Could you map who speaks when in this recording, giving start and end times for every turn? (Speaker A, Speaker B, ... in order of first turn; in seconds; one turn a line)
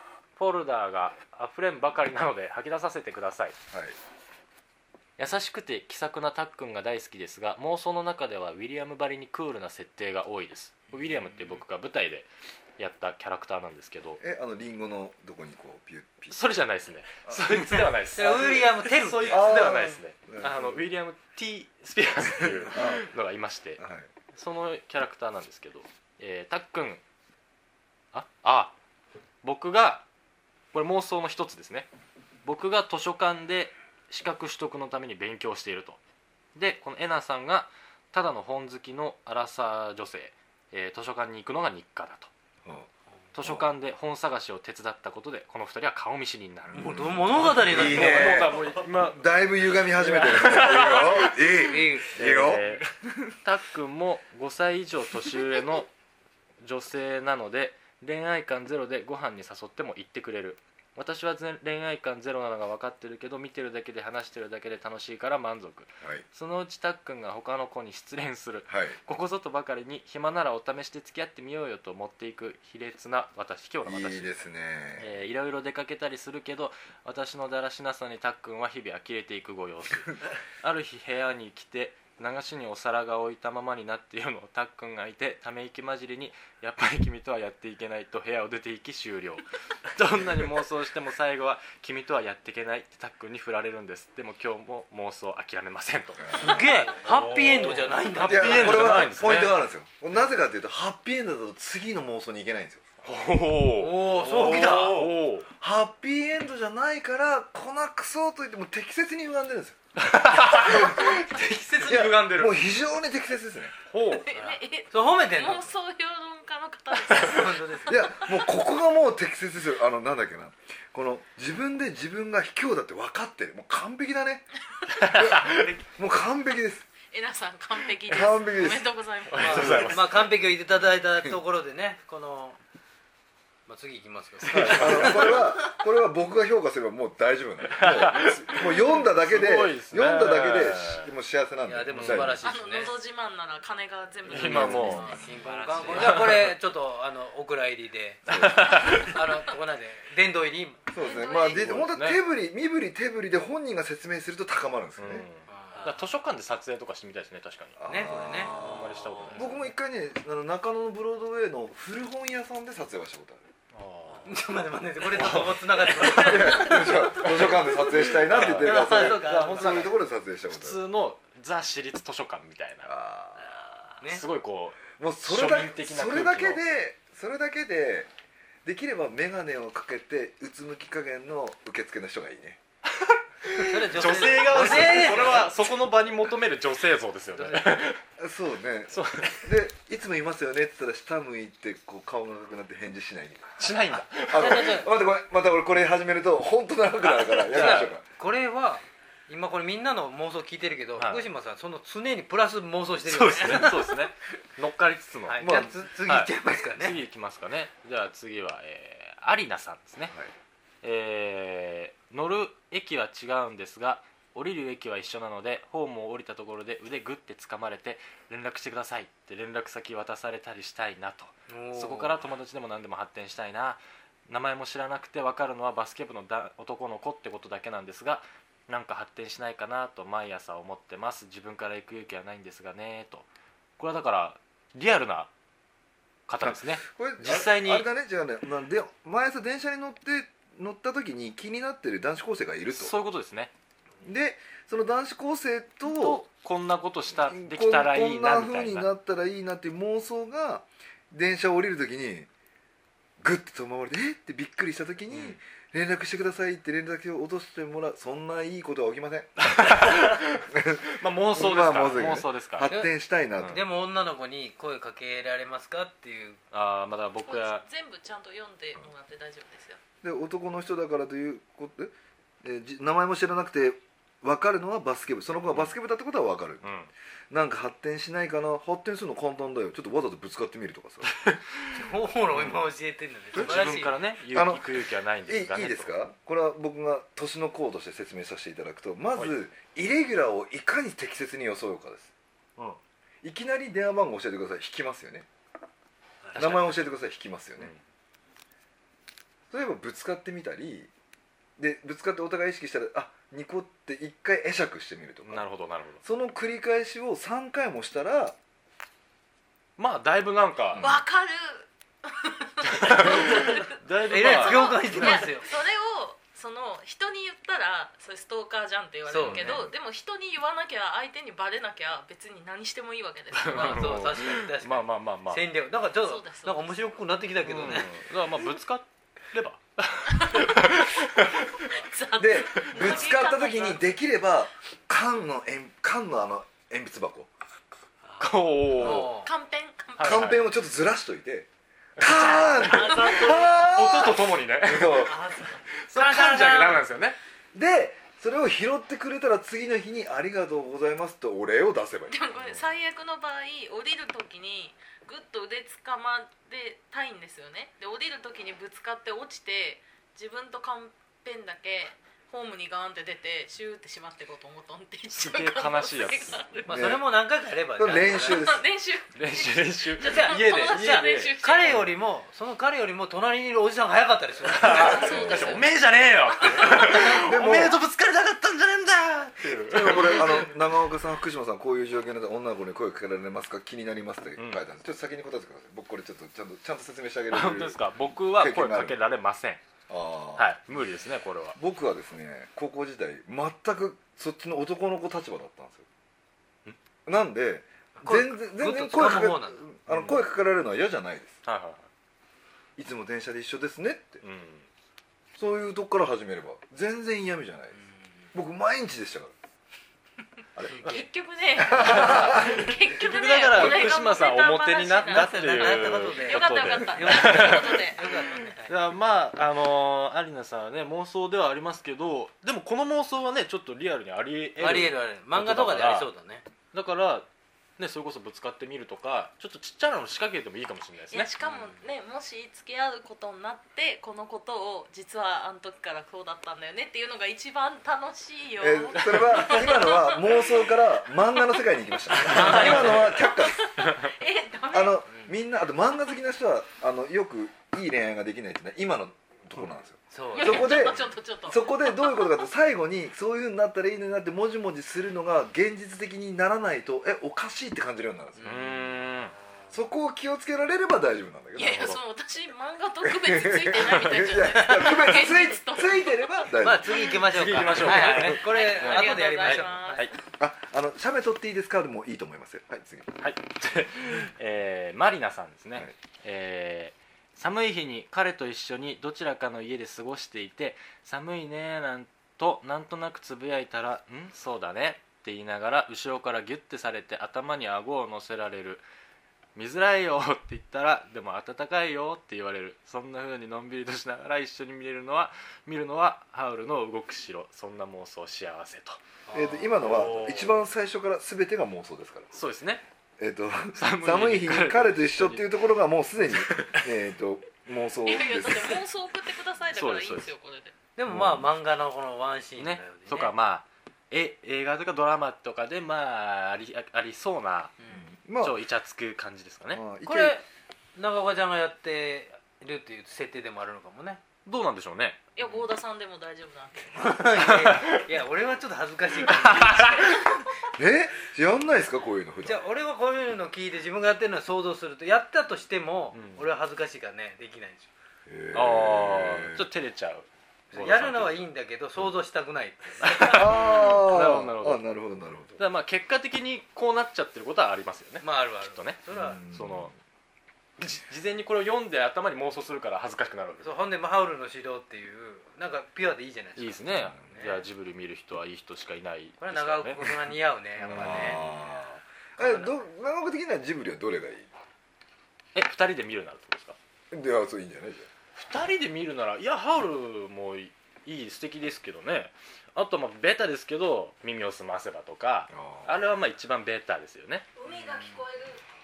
Speaker A: 0.4-3.6
Speaker B: 3.7-4.0
Speaker A: 5.2-14.2
Speaker B: 14.2-16.4
Speaker A: 16.3-23.8
Speaker B: 17.3-17.9
Speaker C: 18.1-20.0
Speaker B: 19.3-20.8
Speaker B: 22.7-23.1
Speaker B: 23.8-24.1
Speaker A: 24.3-27.0
Speaker A: 28.1-28.8
Speaker A: 29.4-30.1
Speaker A: 30.7-31.9
Speaker A: 32.4-36.0
Speaker A: 36.5-42.3
Speaker A: 43.3-51.5
Speaker B: 43.4-43.7
Speaker B: 46.7-53.3
Speaker C: 46.7-48.5
Speaker C: 51.4-52.2
Speaker A: 52.1-52.9
Speaker A: 53.4-55.9
Speaker A: 56.6-74.3
Speaker B: 68.7-69.0
Speaker B: 73.8-75.1
Speaker A: 75.0-99.5
Speaker B: 96.2-96.6
Speaker C: 96.3-99.1
Speaker B: 98.2-102.8
Speaker A: 103.0-105.5
Speaker C: 103.8-105.2
Speaker B: 105.6-109.8
Speaker A: 110.0-112.6
Speaker B: 110.3-111.3
Speaker B: 111.8-113.8
Speaker A: 113.9-114.3
Speaker D: 114.1-118.3
Speaker C: 114.3-115.7
Speaker C: 117.0-118.0
Speaker B: 117.9-124.5
Speaker A: 124.9-125.8
Speaker B: 125.1-126.9
Speaker D: 127.1-129.9
Speaker B: 128.0-128.9
Speaker A: 129.3-130.3
Speaker C: 129.4-132.6
Speaker B: 129.5-129.9
Speaker C: 133.7-135.5
Speaker A: 134.4-135.4
Speaker B: 134.5-142.5
Speaker A: 137.7-141.1
Speaker C: 141.7-143.0
Speaker A: 141.9-142.3
Speaker D: 142.4-146.2
Speaker B: 144.3-145.3
Speaker A: 144.3-146.6
Speaker C: 144.3-150.9
Speaker A: 148.3-149.3
Speaker B: 148.3-149.1
Speaker B: 150.9-155.3
Speaker D: 151.0-151.8
Speaker A: 151.6-152.2
Speaker A: 155.0-159.7
Speaker C: 155.5-155.9
Speaker B: 157.8-163.4
Speaker C: 157.9-159.4
Speaker A: 163.7-164.4
Speaker C: 164.2-169.9
Speaker A: 165.1-166.6
Speaker B: 166.0-170.8
Speaker D: 166.5-167.2
Speaker A: 168.0-169.9
Speaker A: 170.5-172.9
Speaker B: 172.9-173.5
Speaker C: 174.0-174.2
Speaker A: 174.0-176.6
Speaker B: 175.0-178.1
Speaker B: 178.6-182.6
Speaker A: 183.0-188.0
Speaker C: 183.6-185.6
Speaker B: 184.1-185.5
Speaker C: 187.3-187.8
Speaker B: 188.2-198.0
Speaker A: 188.9-189.5
Speaker A: 193.6-194.8
Speaker C: 194.3-194.9
Speaker C: 197.0-204.1
Speaker A: 197.5-198.0
Speaker A: 201.0-201.3
Speaker A: 203.1-210.1
Speaker C: 205.3-207.0
Speaker B: 205.4-205.8
Speaker A: 210.8-233.3
Speaker C: 221.5-222.2
Speaker A: 233.8-235.3
Speaker A: 236.3-237.9
Speaker B: 236.4-242.9
Speaker A: 242.7-243.5
Speaker B: 244.0-246.2
Speaker A: 245.8-248.9
Speaker B: 247.1-252.3
Speaker B: 253.2-263.6
Speaker A: 255.1-255.4
Speaker A: 259.4-262.7
Speaker C: 262.7-262.9
Speaker C: 263.5-266.4
Speaker A: 266.5-267.6
Speaker D: 267.3-269.8
Speaker B: 270.0-276.7
Speaker A: 276.6-276.9
Speaker B: 277.3-281.1
Speaker A: 281.1-281.8
Speaker C: 281.7-284.0
Speaker B: 283.3-283.8
Speaker A: 283.3-285.9
Speaker B: 284.3-284.7
Speaker B: 285.3-292.1
Speaker B: 293.2-295.3
Speaker A: 296.3-296.8
Speaker B: 296.4-297.7
Speaker B: 299.5-300.9
Speaker B: 301.6-305.4
Speaker A: 305.3-306.0
Speaker B: 306.0-308.4
Speaker A: 309.8-310.9
Speaker B: 310.7-311.0
Speaker D: 310.8-324.1
Speaker A: 312.7-314.9
Speaker C: 314.1-315.5
Speaker C: 319.1-319.6
Speaker B: 319.2-319.7
Speaker A: 323.3-325.4
Speaker C: 323.5-328.0
Speaker D: 326.0-326.7
Speaker A: 327.4-331.7
Speaker D: 330.1-330.6
Speaker D: 331.7-333.8
Speaker B: 332.2-337.3
Speaker C: 338.1-339.3
Speaker A: 338.2-339.1
Speaker B: 338.8-339.1
Speaker D: 339.2-340.3
Speaker A: 340.0-340.4
Speaker B: 340.0-345.3
Speaker A: 342.0-345.2
Speaker D: 342.6-344.1
Speaker C: 345.1-346.9
Speaker A: 345.7-347.2
Speaker B: 347.5-352.3
Speaker D: 352.1-366.9
Speaker A: 352.4-352.7
Speaker A: 365.1-366.4
Speaker C: 366.7-368.5
Speaker B: 366.7-367.1
Speaker B: 367.8-368.6
Speaker D: 368.0-371.8
Speaker A: 369.1-371.9
Speaker C: 370.1-375.4
Speaker A: 374.4-380.5
Speaker D: 374.6-375.7
Speaker B: 374.8-375.7
Speaker D: 376.3-377.1
Speaker B: 376.9-377.8
Speaker B: 379.6-389.0
Speaker A: 384.4-384.6
Speaker A: 387.3-389.6
Speaker B: 389.9-390.5
Speaker A: 390.4-391.6
Speaker B: 391.6-395.9
Speaker B: 397.1-401.4
Speaker C: 398.0-399.6
Speaker A: 399.9-400.2
Speaker A: 401.4-401.9
Speaker B: 402.8-404.2
Speaker A: 404.2-404.7
Speaker B: 405.4-407.8
Speaker C: 407.8-408.0
Speaker B: 408.3-409.3
Speaker B: 410.6-411.1
Speaker D: 410.8-418.3
Speaker B: 411.6-412.7
Speaker A: 411.7-417.9
Speaker C: 415.1-418.7
Speaker A: 418.6-426.1
Speaker C: 424.6-426.4
Speaker A: 426.7-427.3
Speaker A: 427.8-431.3
Speaker D: 431.1-445.1
Speaker C: 431.4-431.8
Speaker B: 438.6-443.8
Speaker A: 439.0-439.6
Speaker C: 442.3-443.1
Speaker A: 442.4-442.9
Speaker A: 443.8-444.0
Speaker B: 444.7-458.5
Speaker C: 445.1-445.3
Speaker C: 450.1-451.1
Speaker D: 450.3-452.4
Speaker C: 458.4-458.8
Speaker A: 458.4-459.3
Speaker B: 459.7-461.9
Speaker D: 461.6-466.5
Speaker A: 461.6-462.0
Speaker B: 463.0-467.1
Speaker C: 464.5-465.2
Speaker C: 466.6-470.1
Speaker A: 467.1-470.1
Speaker D: 467.9-470.1
Speaker B: 470.4-473.2
Speaker A: 473.2-488.8
Speaker A: 489.6-499.0
Speaker C: 499.3-500.4
Speaker B: 499.3-502.3
Speaker A: 499.8-500.6
Speaker A: 502.3-502.8
Speaker B: 503.2-508.8
Speaker A: 503.8-506.8
Speaker D: 508.1-510.7
Speaker A: 509.7-510.3
Speaker C: 511.0-513.3
Speaker B: 511.1-511.5
Speaker A: 512.6-517.7
Speaker C: 517.8-518.0
Speaker B: 517.9-518.6
Speaker A: 518.4-519.8
Speaker B: 519.7-520.4
Speaker C: 520.0-520.4
Speaker C: 521.0-524.2
Speaker A: 524.5-525.2
Speaker D: 525.4-527.2
Speaker C: 525.4-525.7
Speaker C: 526.9-530.4
Speaker A: 527.4-528.0
Speaker A: 529.3-530.1
Speaker D: 530.0-530.4
Speaker B: 530.8-532.6
Speaker C: 532.4-537.9
Speaker A: 536.1-536.5
Speaker B: 538.3-539.6
Speaker A: 538.5-541.5
Speaker C: 540.7-543.6
Speaker A: 543.0-544.8
Speaker B: 543.3-545.6
Speaker A: 545.6-549.9
Speaker C: 548.2-549.4
Speaker B: 549.1-549.9
Speaker A: 550.8-553.8
Speaker C: 553.6-557.6
Speaker A: 556.6-560.1
Speaker C: 559.4-561.4
Speaker A: 560.8-561.5
Speaker B: 560.9-564.5
Speaker C: 562.4-562.8
Speaker A: 565.5-566.8
Speaker B: 567.1-568.1
Speaker A: 568.4-577.5
Speaker B: 575.5-576.0
Speaker D: 577.6-578.6
Speaker C: 577.7-578.3